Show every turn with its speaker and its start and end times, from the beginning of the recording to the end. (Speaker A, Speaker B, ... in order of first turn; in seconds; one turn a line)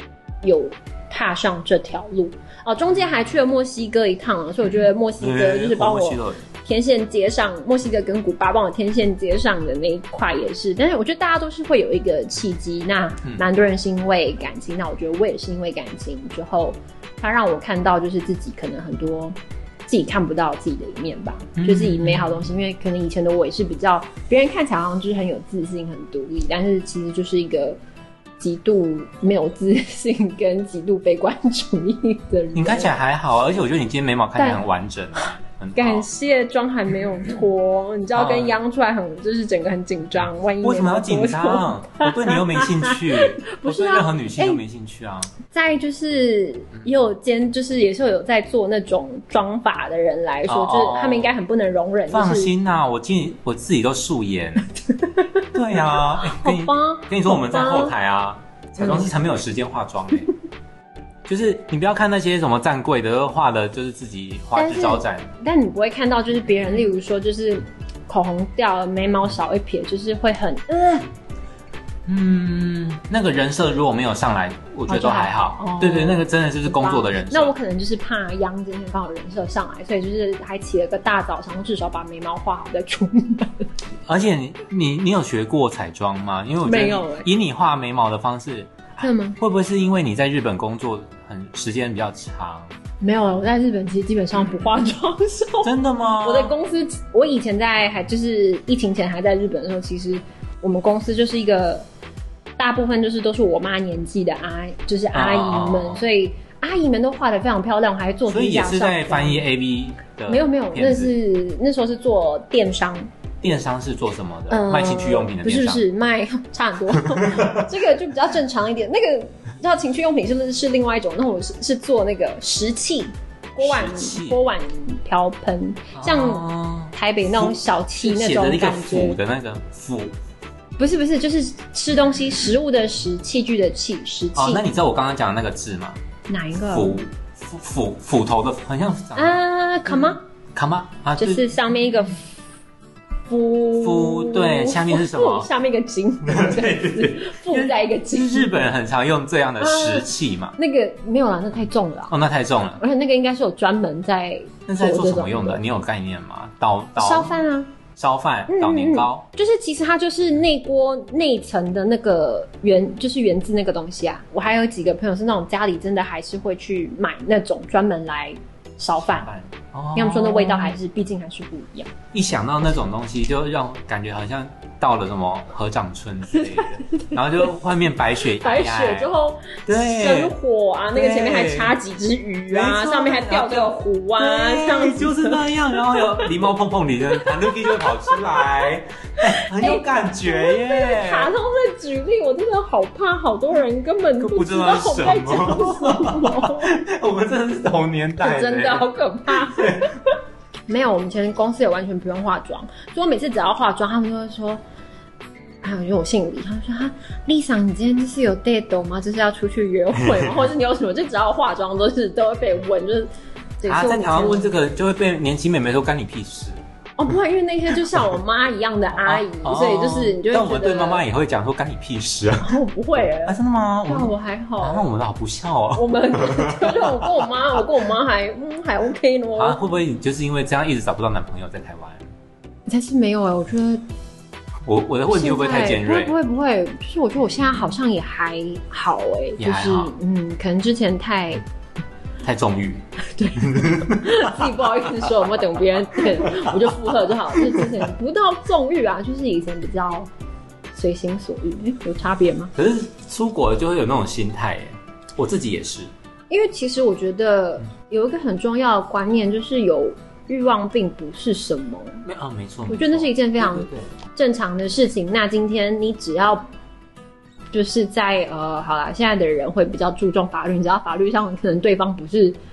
Speaker A: 0.4-19.4
Speaker B: 5.2-6.4
Speaker A: 19.9-27.8
Speaker B: 21.6-22.4
Speaker A: 28.4-32.9
Speaker B: 32.5-36.1
Speaker A: 34.4-34.6
Speaker A: 35.8-44.6
Speaker B: 38.1-38.6
Speaker B: 40.6-45.3
Speaker A: 45.5-52.5
Speaker B: 50.5-51.3
Speaker B: 52.1-54.7
Speaker B: 55.5-60.3
Speaker A: 56.2-58.0
Speaker A: 58.8-59.1
Speaker B: 61.3-65.3
Speaker A: 64.5-71.1
Speaker B: 72.1-77.5
Speaker A: 74.9-83.7
Speaker B: 84.1-92.7
Speaker A: 86.6-87.3
Speaker A: 89.0-89.4
Speaker A: 93.0-101.9
Speaker B: 95.6-96.5
Speaker A: 102.6-109.5
Speaker B: 105.1-106.1
Speaker B: 108.3-111.1
Speaker A: 110.3-113.1
Speaker B: 113.4-115.8
Speaker A: 114.5-129.2
Speaker B: 117.1-117.7
Speaker B: 123.6-124.4
Speaker B: 125.9-130.1
Speaker A: 130.8-134.6
Speaker B: 134.3-136.0
Speaker A: 136.3-137.0
Speaker B: 136.7-141.5
Speaker A: 139.2-140.2
Speaker A: 141.2-142.2
Speaker A: 143.3-148.6
Speaker B: 143.8-145.5
Speaker B: 146.2-150.6
Speaker A: 149.6-152.1
Speaker B: 152.1-152.8
Speaker A: 152.8-155.6
Speaker B: 154.7-157.4
Speaker A: 157.0-157.7
Speaker B: 158.0-159.2
Speaker A: 158.5-169.3
Speaker B: 169.0-170.8
Speaker A: 169.9-171.9
Speaker B: 172.1-179.1
Speaker A: 176.3-177.2
Speaker A: 178.3-186.3
Speaker B: 179.7-180.3
Speaker B: 180.9-181.8
Speaker B: 182.5-191.3
Speaker A: 187.1-188.7
Speaker A: 189.2-196.7
Speaker B: 194.2-199.9
Speaker A: 198.2-200.1
Speaker A: 200.7-204.6
Speaker A: 205.6-214.5
Speaker B: 210.0-210.3
Speaker B: 213.7-216.6
Speaker A: 217.0-221.0
Speaker B: 219.0-222.6
Speaker A: 222.4-224.9
Speaker B: 223.2-227.2
Speaker A: 225.8-229.6
Speaker B: 229.4-232.1
Speaker A: 232.7-233.8
Speaker B: 234.7-236.2
Speaker A: 235.1-241.4
Speaker B: 239.4-239.9
Speaker B: 242.2-242.9
Speaker A: 243.0-250.1
Speaker B: 243.4-244.4
Speaker B: 246.2-246.6
Speaker B: 247.4-247.7
Speaker A: 250.7-252.5
Speaker B: 252.6-255.9
Speaker A: 256.3-262.0
Speaker B: 262.0-263.9
Speaker A: 262.7-266.5
Speaker A: 267.5-272.4